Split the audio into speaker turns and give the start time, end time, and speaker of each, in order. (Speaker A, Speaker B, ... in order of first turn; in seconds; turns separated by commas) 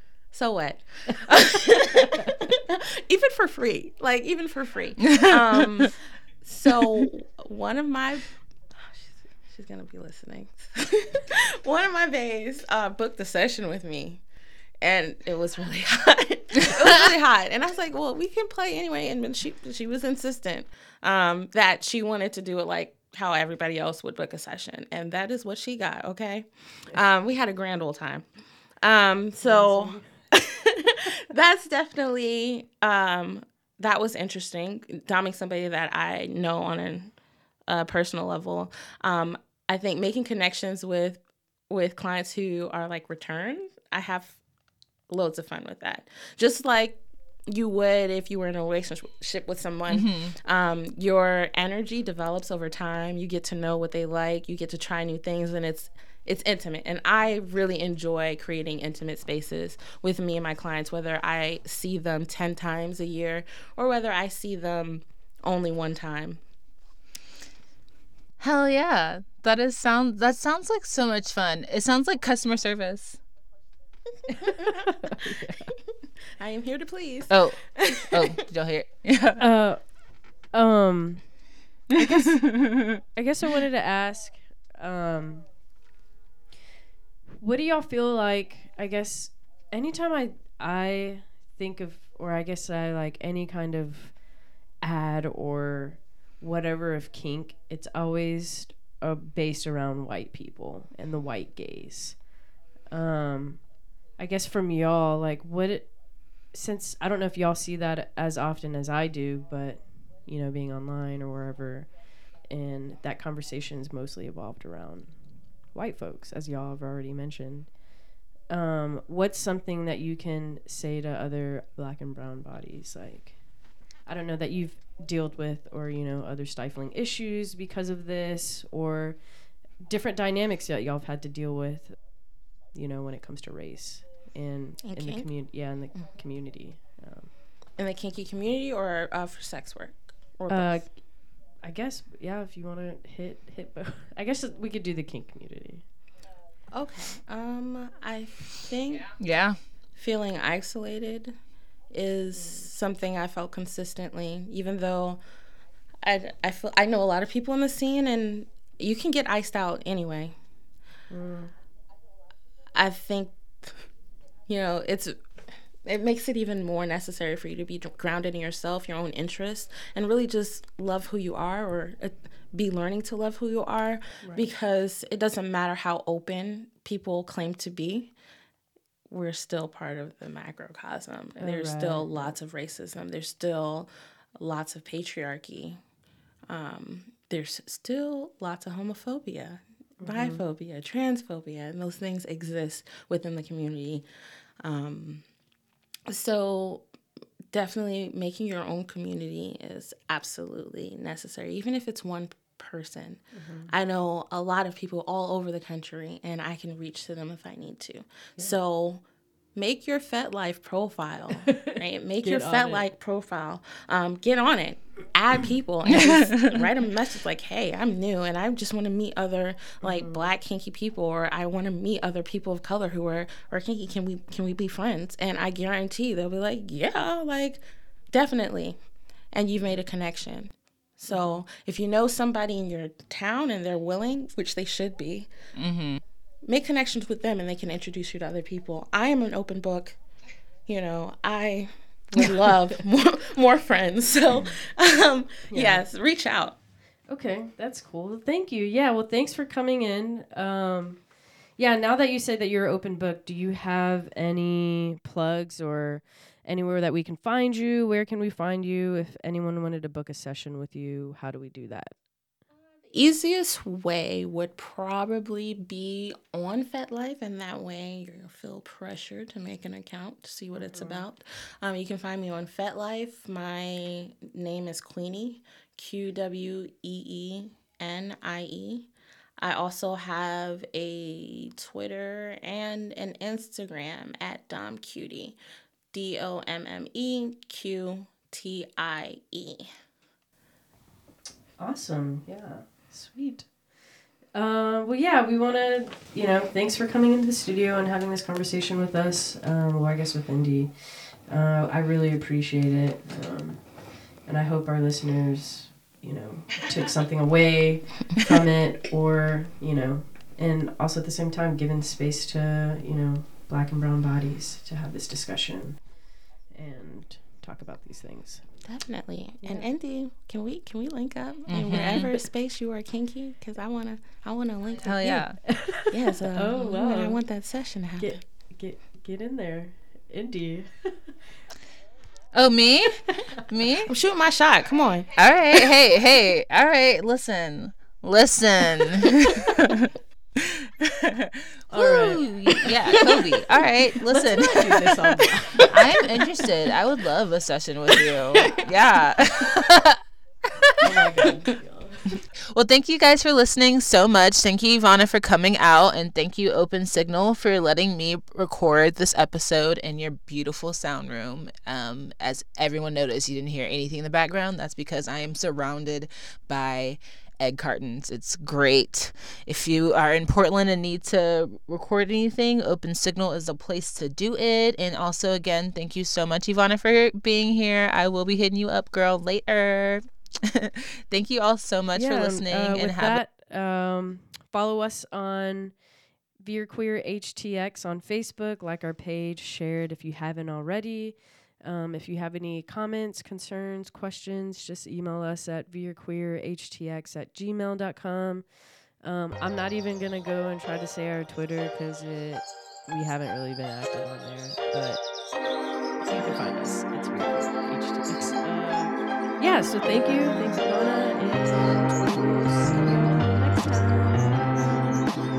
Speaker A: 0.3-14.2, Speaker B: 5.0-5.9, Speaker A: 14.8-28.2, Speaker A: 28.8-37.1, Speaker C: 29.4-30.1, Speaker A: 37.7-44.4, Speaker A: 45.1-66.4, Speaker B: 49.9-50.3, Speaker B: 68.4-73.2, Speaker C: 74.4-75.7, Speaker A: 74.4-74.7, Speaker A: 76.4-78.4, Speaker B: 77.3-79.4, Speaker C: 79.4-81.3, Speaker B: 81.9-83.0, Speaker C: 81.9-85.5, Speaker C: 87.4-94.2, Speaker C: 94.8-102.3, Speaker C: 102.9-117.8, Speaker C: 118.5-123.5, Speaker C: 124.0-132.1, Speaker C: 132.7-137.3, Speaker A: 134.8-135.3, Speaker A: 137.8-140.9, Speaker C: 140.5-145.8, Speaker A: 146.7-149.2, Speaker B: 149.2-149.6, Speaker A: 150.0-151.3, Speaker A: 151.9-155.2, Speaker C: 152.3-152.6, Speaker A: 156.0-160.3, Speaker C: 161.1-161.5, Speaker A: 162.7-163.8, Speaker A: 164.5-165.2, Speaker A: 165.8-178.1, Speaker C: 174.2-174.5, Speaker A: 179.1-185.8, Speaker C: 181.3-182.3, Speaker A: 186.5-194.0, Speaker C: 190.0-190.4, Speaker A: 194.6-195.2, Speaker A: 196.1-196.8, Speaker A: 197.5-209.0, Speaker C: 203.3-203.7, Speaker A: 209.5-228.8, Speaker C: 211.4-212.8, Speaker B: 215.8-216.7, Speaker C: 219.8-220.1, Speaker A: 229.3-235.3, Speaker C: 231.1-231.4, Speaker B: 235.6-236.0, Speaker A: 236.4-240.0, Speaker A: 240.7-246.6, Speaker C: 245.5-245.8, Speaker C: 247.1-261.9, Speaker A: 262.9-278.9, Speaker C: 270.6-271.0, Speaker A: 279.4-285.4, Speaker A: 285.9-289.7, Speaker C: 291.6-293.6, Speaker C: 294.3-315.8, Speaker C: 316.5-318.4, Speaker A: 318.6-328.2, Speaker B: 321.5-322.1, Speaker B: 324.8-325.4, Speaker C: 325.5-327.2, Speaker C: 328.0-331.0, Speaker B: 332.3-333.9, Speaker A: 333.9-335.1, Speaker B: 335.1-344.9, Speaker C: 341.7-342.2, Speaker C: 344.1-345.9, Speaker B: 345.6-350.8, Speaker C: 350.8-352.2, Speaker B: 352.5-383.2, Speaker C: 381.9-385.8, Speaker C: 386.4-405.1, Speaker C: 406.0-414.9